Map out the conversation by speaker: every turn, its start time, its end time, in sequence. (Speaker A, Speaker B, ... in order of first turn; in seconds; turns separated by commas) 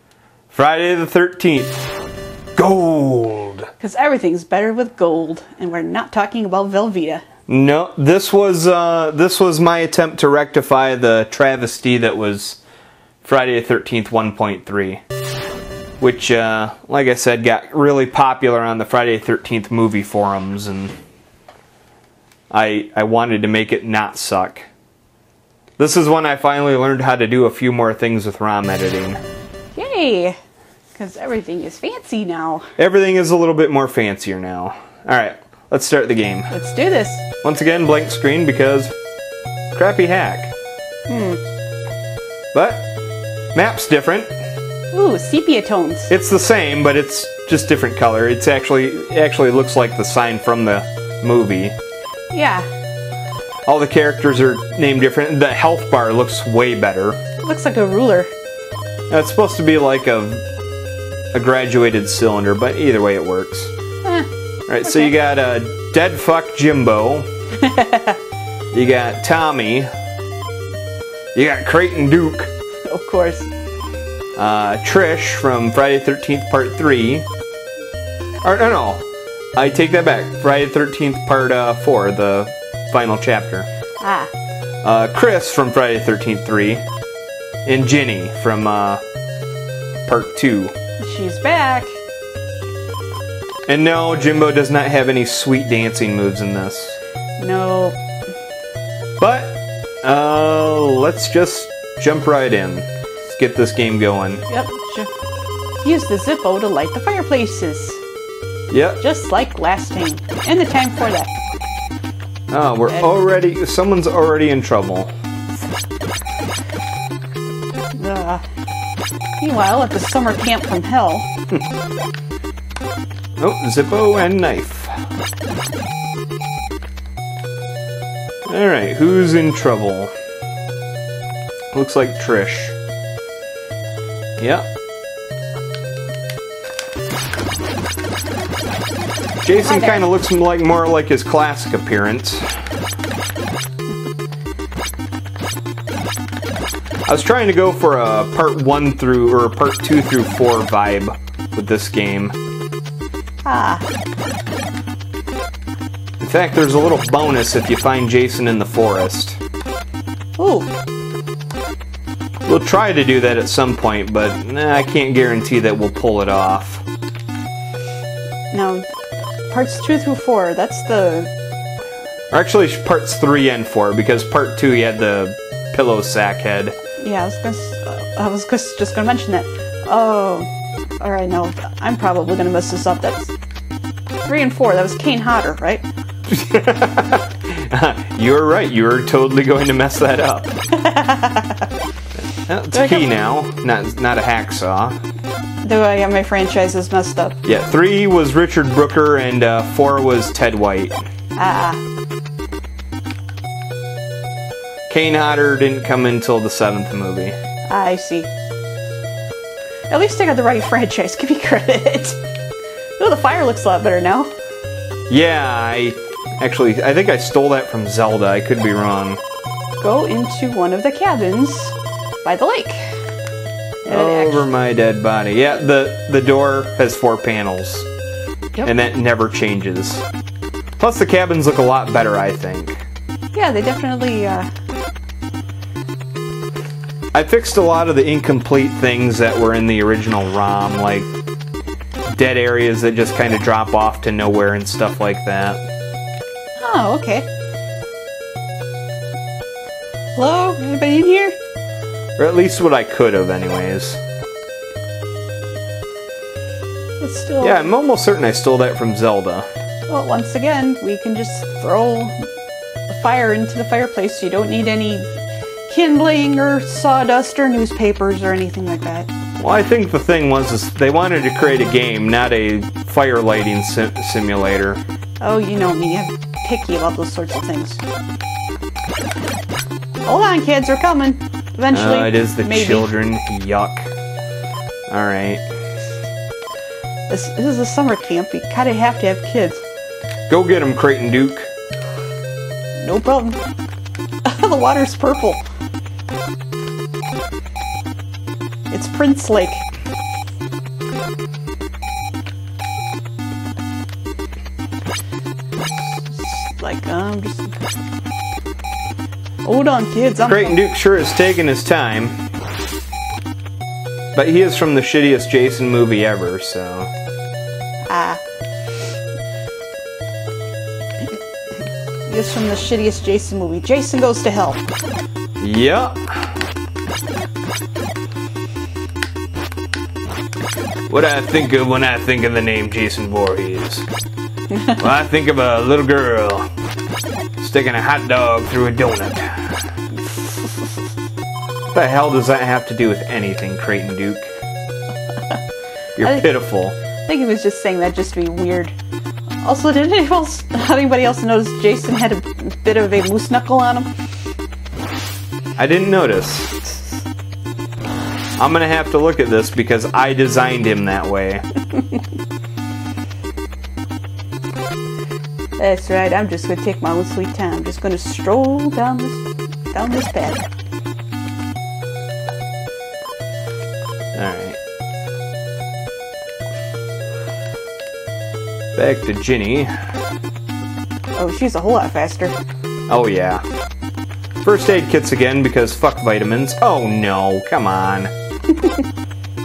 Speaker A: 0.5-1.8, Speaker A: 2.5-3.7, Speaker B: 3.8-7.2, Speaker A: 7.5-12.6, Speaker A: 13.2-15.0, Speaker A: 16.0-20.9, Speaker A: 22.5-24.7, Speaker A: 25.8-29.2, Speaker B: 29.8-30.4, Speaker B: 30.9-32.7, Speaker A: 32.8-36.5, Speaker B: 36.5-37.2, Speaker A: 37.4-38.9, Speaker A: 39.7-40.5, Speaker B: 41.1-41.4, Speaker A: 42.5-42.9, Speaker A: 43.5-44.3, Speaker B: 44.9-46.1, Speaker A: 46.1-51.8, Speaker B: 52.3-52.7, Speaker A: 53.7-57.2, Speaker B: 57.4-58.3, Speaker A: 59.1-60.4, Speaker A: 61.3-63.7, Speaker A: 64.7-67.3, Speaker B: 64.8-65.1, Speaker B: 67.6-68.2, Speaker A: 68.7-69.9, Speaker A: 71.3-72.5, Speaker B: 72.9-73.5, Speaker A: 74.4-77.3, Speaker A: 78.4-83.7, Speaker B: 84.0-84.3, Speaker A: 84.8-86.8, Speaker A: 87.7-89.0, Speaker A: 90.1-90.8, Speaker B: 91.0-92.0, Speaker A: 93.7-97.0, Speaker B: 97.4-98.0, Speaker A: 99.2-104.4, Speaker B: 104.5-105.1, Speaker B: 105.8-108.0, Speaker A: 108.7-109.0, Speaker B: 109.0-111.3, Speaker A: 112.5-115.1, Speaker B: 118.0-118.4, Speaker B: 119.4-121.3, Speaker A: 123.4-125.0, Speaker A: 128.4-130.1, Speaker A: 131.7-132.7, Speaker A: 134.4-134.7, Speaker A: 139.4-142.6, Speaker B: 139.6-140.1, Speaker A: 147.1-152.3, Speaker B: 153.4-153.8, Speaker A: 156.2-159.4, Speaker B: 160.4-160.7, Speaker A: 162.4-166.8, Speaker B: 168.5-168.8, Speaker B: 169.5-171.3, Speaker A: 172.3-176.8, Speaker B: 177.0-180.5, Speaker B: 181.0-183.3, Speaker B: 184.2-185.8, Speaker A: 186.3-190.5, Speaker B: 190.7-191.7, Speaker A: 192.3-195.0, Speaker B: 192.7-193.1, Speaker B: 195.6-197.4, Speaker A: 197.4-201.0, Speaker B: 201.4-201.8, Speaker A: 204.9-207.4, Speaker B: 207.7-208.3, Speaker B: 209.9-212.2, Speaker B: 213.0-214.3, Speaker A: 215.1-219.2, Speaker B: 219.8-222.8, Speaker B: 223.8-224.4, Speaker A: 223.9-227.9, Speaker A: 228.6-230.1, Speaker A: 230.8-232.8, Speaker B: 233.3-234.5, Speaker A: 237.1-241.1, Speaker A: 242.1-245.6, Speaker B: 246.6-247.3, Speaker B: 250.2-251.3, Speaker A: 252.2-254.0, Speaker B: 257.0-257.7, Speaker A: 257.4-259.5, Speaker B: 259.9-262.2, Speaker B: 262.9-265.1, Speaker B: 265.7-269.1, Speaker A: 269.4-274.8, Speaker B: 275.2-277.8, Speaker B: 280.1-282.9, Speaker A: 281.7-283.9, Speaker A: 284.9-285.5, Speaker B: 287.1-289.6, Speaker A: 290.3-291.5, Speaker B: 292.8-293.4, Speaker B: 294.2-295.4, Speaker B: 298.7-299.6, Speaker B: 305.8-307.6, Speaker B: 309.4-310.6, Speaker A: 310.2-312.2, Speaker A: 314.1-316.9, Speaker B: 317.9-318.2, Speaker B: 322.1-324.6, Speaker A: 325.4-326.3, Speaker A: 330.9-333.9, Speaker B: 334.5-334.8, Speaker A: 334.8-336.5, Speaker A: 337.4-339.7, Speaker A: 341.7-344.3, Speaker A: 346.0-346.8, Speaker B: 346.0-346.3, Speaker B: 347.1-348.8, Speaker B: 349.4-353.9, Speaker A: 355.6-356.6, Speaker A: 358.4-361.4, Speaker B: 365.6-370.4, Speaker A: 374.1-374.6, Speaker A: 378.8-379.7, Speaker B: 381.2-382.4, Speaker A: 382.9-383.4, Speaker A: 384.4-388.1, Speaker B: 388.5-388.8